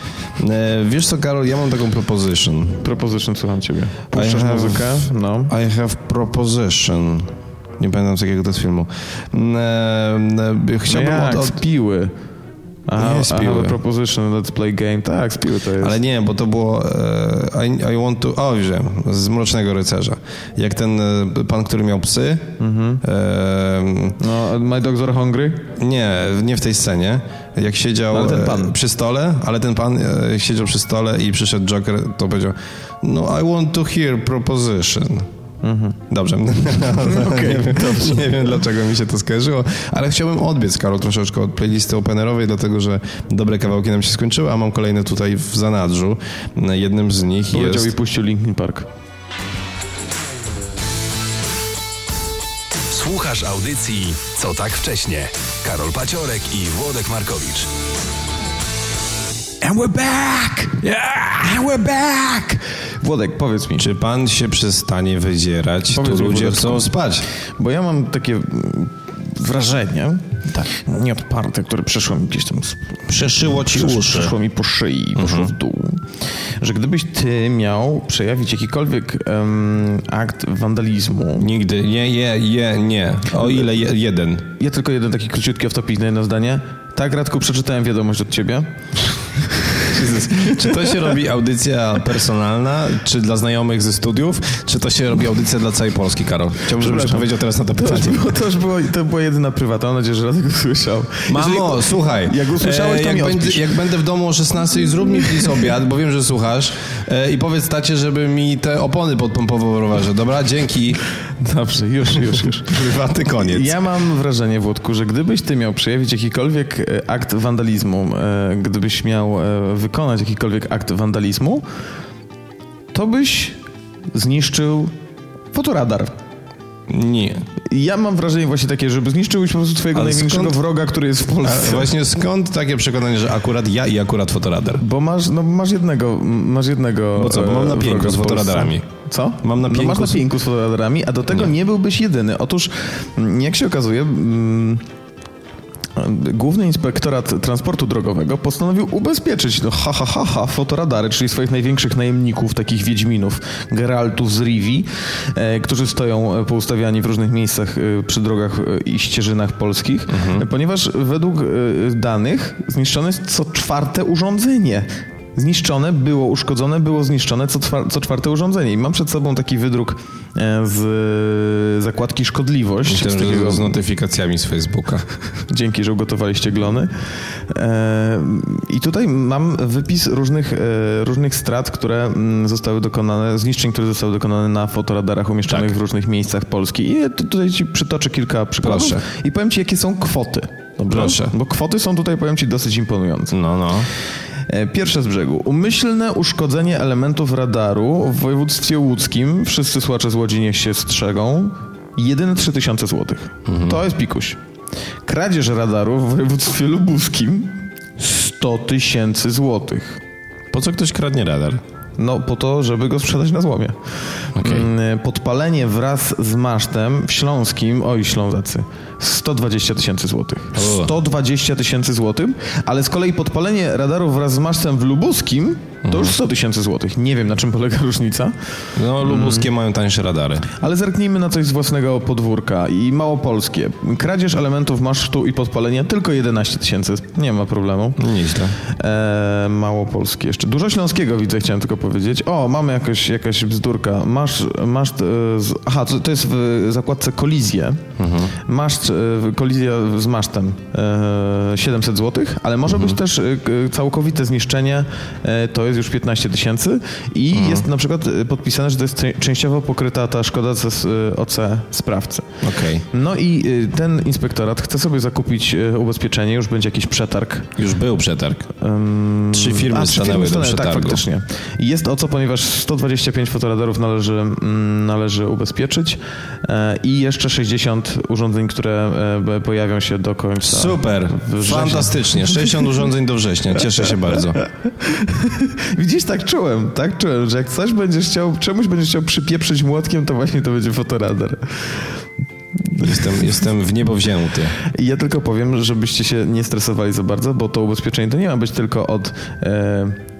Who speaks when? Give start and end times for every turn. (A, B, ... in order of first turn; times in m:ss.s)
0:00.4-0:02.9 A
0:02.8-0:05.5 B
0:04.1-0:11.6 A
0:10.9-0:12.1 B
0:12.9-0:16.0 B
0:13.0-0:13.8 A
0:15.8-0:24.2 A
0:22.6-0:23.0 B
0:24.2-0:25.7 B
0:25.8-0:35.3 A
0:28.1-0:28.7 B
0:35.6-0:36.0 B
0:36.1-0:47.9 A
0:37.0-0:38.5 B
0:47.5-0:48.9 B
0:52.9-0:57.7 C
0:59.6-1:03.9 B
1:03.8-1:07.3 A
1:05.9-1:06.9 B
1:07.6-1:16.0 B
1:13.1-1:14.4 A
1:15.2-1:15.5 A
1:16.6-1:21.5 B
1:21.4-1:24.5 A
1:24.6-1:31.0 B
1:29.9-1:38.3 A
1:36.7-1:43.7 B
1:41.3-1:51.0 A
1:51.4-2:01.6 B
1:52.1-1:53.8 A
2:02.9-2:03.6 B
2:04.1-2:04.9 B
2:05.5-2:06.1 B
2:06.9-2:07.5 A
2:07.6-2:11.9 B
2:09.9-2:10.6 A
2:11.4-2:14.8 A
2:14.8-2:24.8 B
2:17.1-2:18.9 A
2:19.4-2:20.2 A
2:26.0-2:53.8 B
2:40.1-2:40.4 A
2:52.8-2:55.1 A
2:55.5-2:56.9 B
2:57.5-3:13.4 B
3:05.5-3:05.7 A
3:08.6-3:09.0 A
3:10.9-3:11.4 A
3:13.3-3:13.9 A
3:14.5-3:24.4 B
3:23.4-3:23.8 A
3:25.0-3:30.0 B
3:30.5-3:31.6 A
3:32.0-3:48.4 B
3:34.4-3:34.7 A
3:40.5-3:40.9 A
3:45.8-3:46.2 A
3:48.8-3:50.5 A
3:49.0-3:49.5 B
3:50.6-3:58.1 B
3:58.0-3:58.6 A
3:58.6-4:22.4 B
4:08.0-4:08.3 A
4:12.7-4:13.0 A
4:17.3-4:17.7 A
4:22.4-4:22.8 A
4:22.9-4:27.5 B
4:27.6-4:28.5 A
4:28.6-4:42.8 B
4:29.3-4:31.0 A
4:40.4-4:44.4 A
4:44.1-4:51.8 B
4:52.6-4:53.3 B
4:52.8-4:54.6 A
4:54.6-5:00.0 B